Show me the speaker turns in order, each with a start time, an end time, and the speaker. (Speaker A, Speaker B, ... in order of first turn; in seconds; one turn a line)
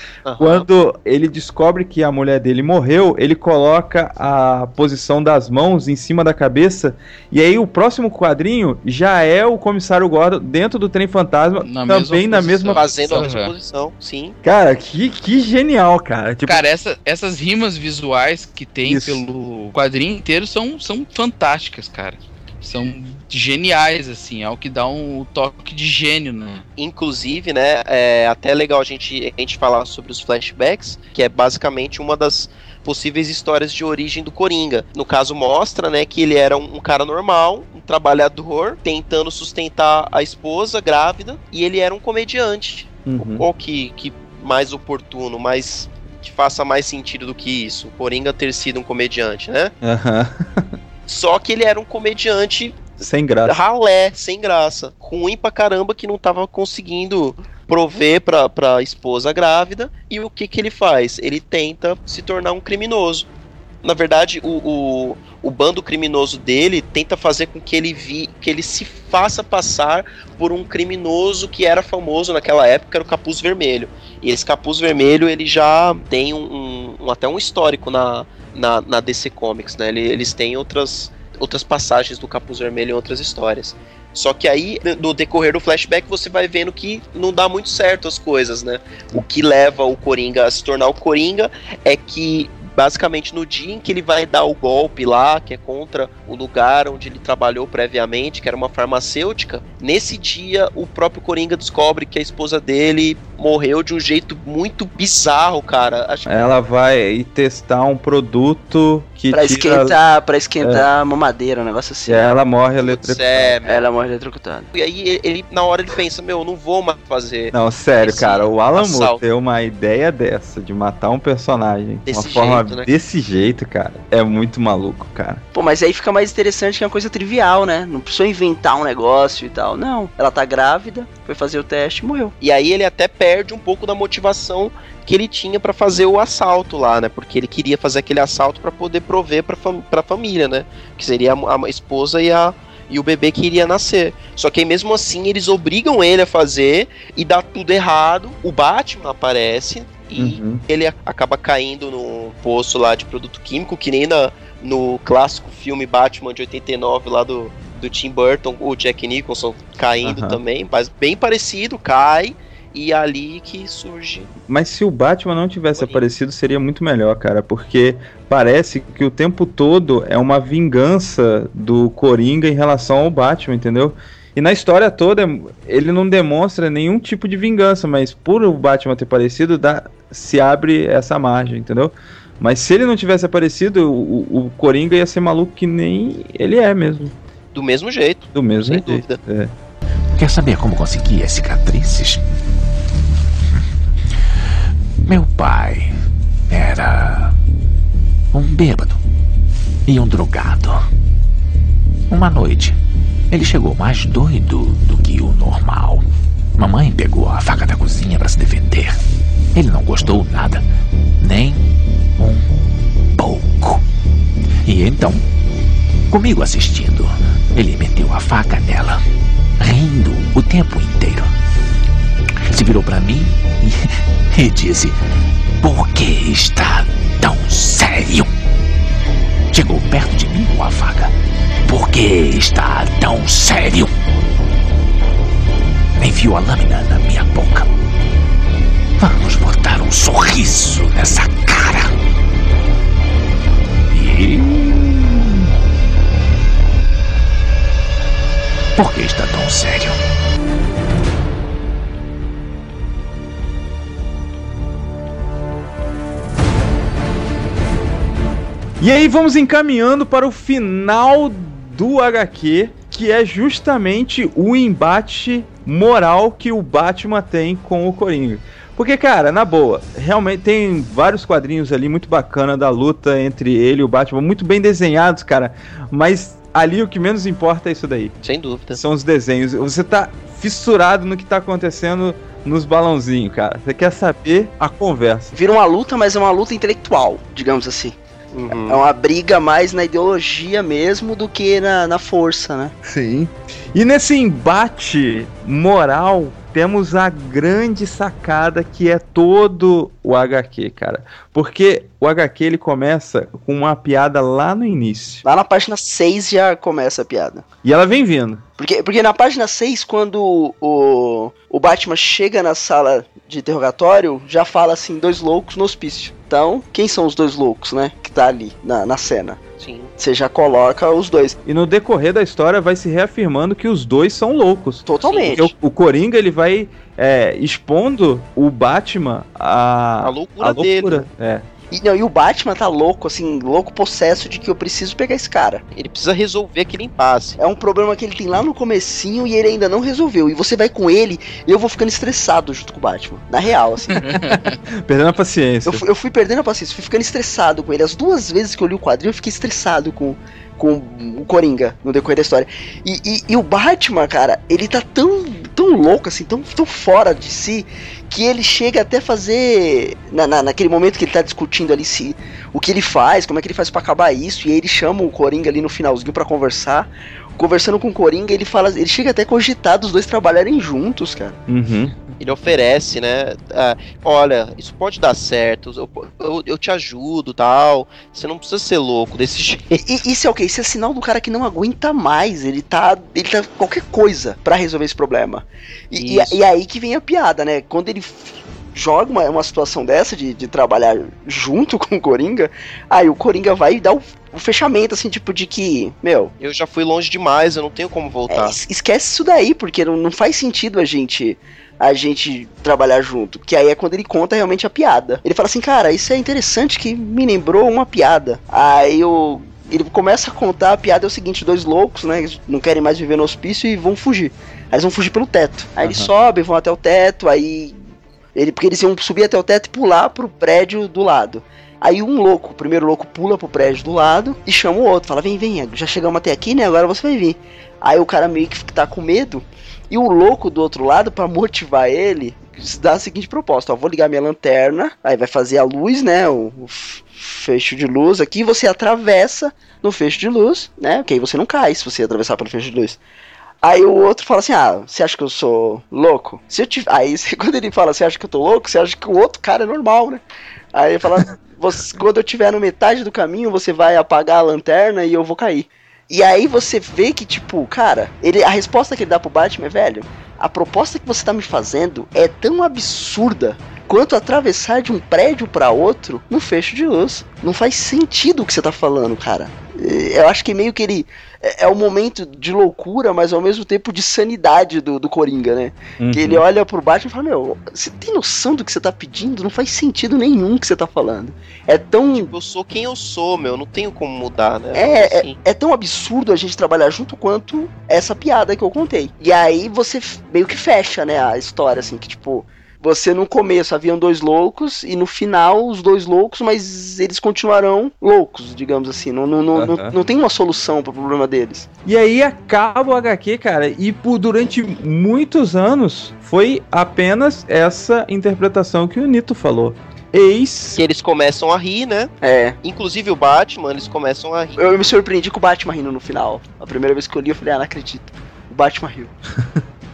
Speaker A: 0.2-0.7
Speaker B: 0.4-13.3
Speaker C: 11.6-13.5
Speaker A: 12.7-14.4
Speaker B: 14.4-16.6
Speaker C: 16.5-26.6
Speaker B: 18.8-19.7
Speaker A: 26.8-49.7
Speaker B: 43.0-43.5
Speaker B: 49.8-50.7
Speaker A: 51.1-52.9
Speaker B: 53.0-53.6
Speaker A: 53.4-63.3
Speaker A: 63.8-106.3
Speaker B: 106.3-110.0
Speaker D: 109.3-112.3
Speaker B: 110.6-110.9
Speaker B: 112.1-113.6
Speaker A: 112.8-113.8
Speaker D: 113.7-114.7
Speaker A: 114.7-119.2
Speaker B: 117.5-125.4
Speaker A: 122.1-122.9
Speaker D: 125.5-132.3
Speaker A: 132.4-164.3
Speaker B: 150.2-150.6
Speaker B: 160.0-160.4
Speaker B: 164.5-187.1
Speaker A: 165.8-166.0
Speaker A: 187.5-189.2
Speaker B: 188.3-189.5
Speaker E: 190.2-192.2
Speaker E: 195.1-195.9
Speaker E: 196.5-197.3
Speaker E: 198.3-199.0
Speaker E: 199.9-200.8
Speaker E: 202.1-202.8
Speaker E: 203.3-206.1
Speaker E: 206.6-209.0
Speaker E: 209.5-210.6
Speaker E: 211.2-211.6
Speaker E: 213.1-213.8
Speaker E: 214.6-215.2
Speaker E: 216.1-219.0
Speaker E: 219.6-221.3
Speaker E: 222.5-225.0
Speaker E: 225.6-228.3
Speaker E: 229.5-231.1
Speaker E: 231.7-233.9
Speaker E: 236.0-237.7
Speaker E: 239.0-241.9
Speaker E: 243.9-245.4
Speaker E: 248.8-250.0
Speaker B: 258.8-278.1
Speaker A: 278.2-278.8
Speaker B: 278.7-285.4
Speaker D: 285.3-287.9
Speaker A: 288.3-288.8
Speaker D: 288.5-292.7
Speaker B: 292.8-305.2
Speaker D: 305.2-307.4
Speaker B: 307.6-308.4
Speaker D: 308.6-319.4
Speaker A: 319.6-319.9
Speaker D: 320.0-321.4
Speaker B: 321.4-331.5
Speaker D: 324.9-325.5
Speaker A: 325.0-325.4
Speaker A: 330.0-331.1
Speaker D: 331.7-335.6
Speaker A: 335.7-337.4
Speaker D: 337.4-344.0
Speaker C: 343.9-344.6
Speaker B: 344.8-345.8
Speaker D: 345.6-371.4
Speaker B: 371.5-371.9
Speaker A: 372.2-379.8
Speaker D: 379.8-396.3
Speaker A: 385.9-386.4
Speaker A: 396.4-398.6
Speaker D: 398.3-417.8
Speaker B: 415.8-416.1
Speaker D: 418.3-443.0
Speaker D: 443.6-450.2
Speaker D: 450.7-482.3
Speaker B: 476.0-476.4
Speaker A: 482.1-485.4
Speaker D: 484.7-501.7
Speaker B: 499.5-499.9
Speaker B: 501.8-510.8
Speaker A: 510.7-512.1
Speaker D: 512.2-512.5
Speaker A: 512.6-514.7
Speaker D: 514.6-519.1